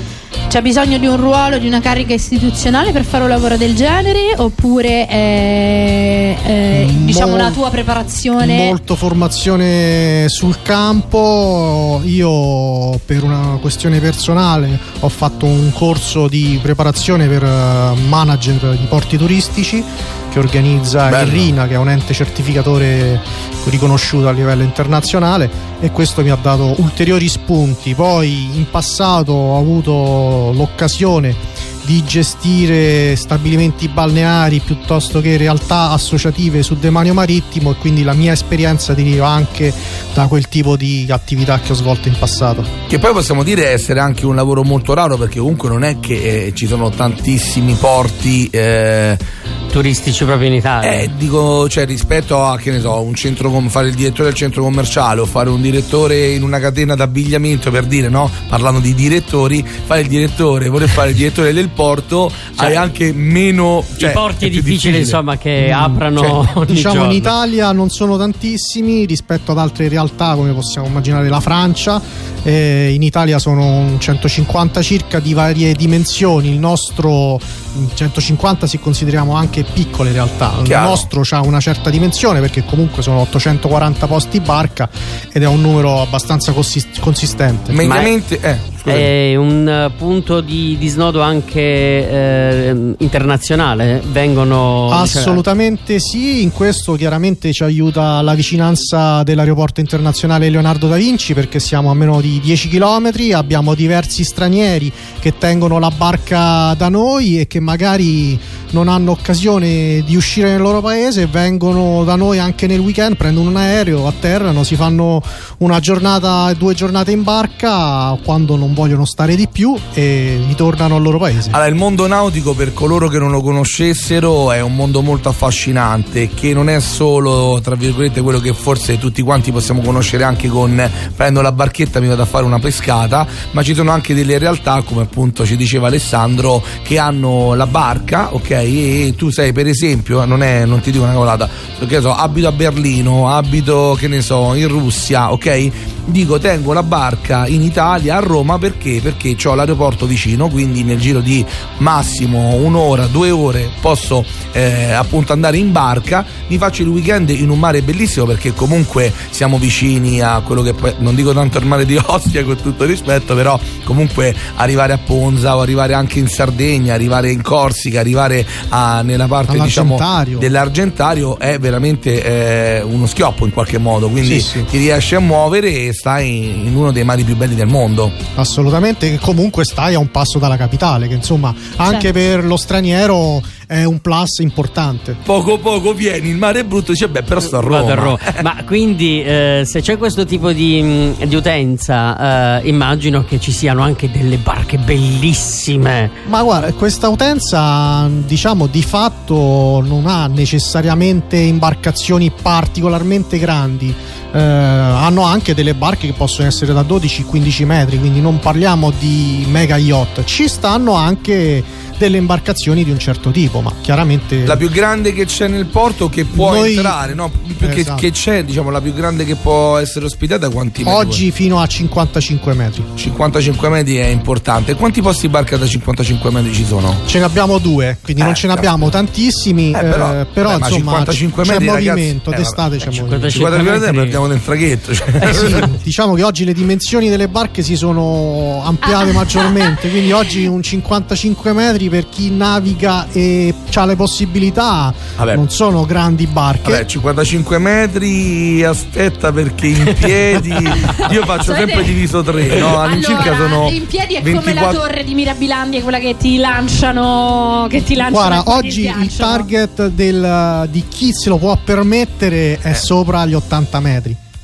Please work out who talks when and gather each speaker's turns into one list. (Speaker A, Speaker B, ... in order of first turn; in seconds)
Speaker A: 0.5-8.7, 238.8-239.8, 250.8-259.5
Speaker B: 6.7-7.6, 8.4-42.7, 65.6-66.0, 66.7-87.8, 94.9-121.6, 169.5-170.5, 174.2-174.7, 178.3-185.2, 196.2-214.6, 216.3-218.1, 220.8-222.9, 227.1-233.7, 235.2-246.8, 258.1-264.2
Speaker C: 21.1-21.5, 42.9-49.2, 50.8-65.2, 80.6-81.1, 87.7-89.1, 121.5-178.2, 185.2-188.4, 214.4-221.2, 223.0-227.0, 228.2-228.9, 229.7-232.6, 233.3-235.7, 245.2-245.4, 246.6-254.8
Speaker D: 49.7-51.1, 64.0-67.3, 87.8-88.1, 88.8-95.4, 187.6-196.1, 232.9-234.2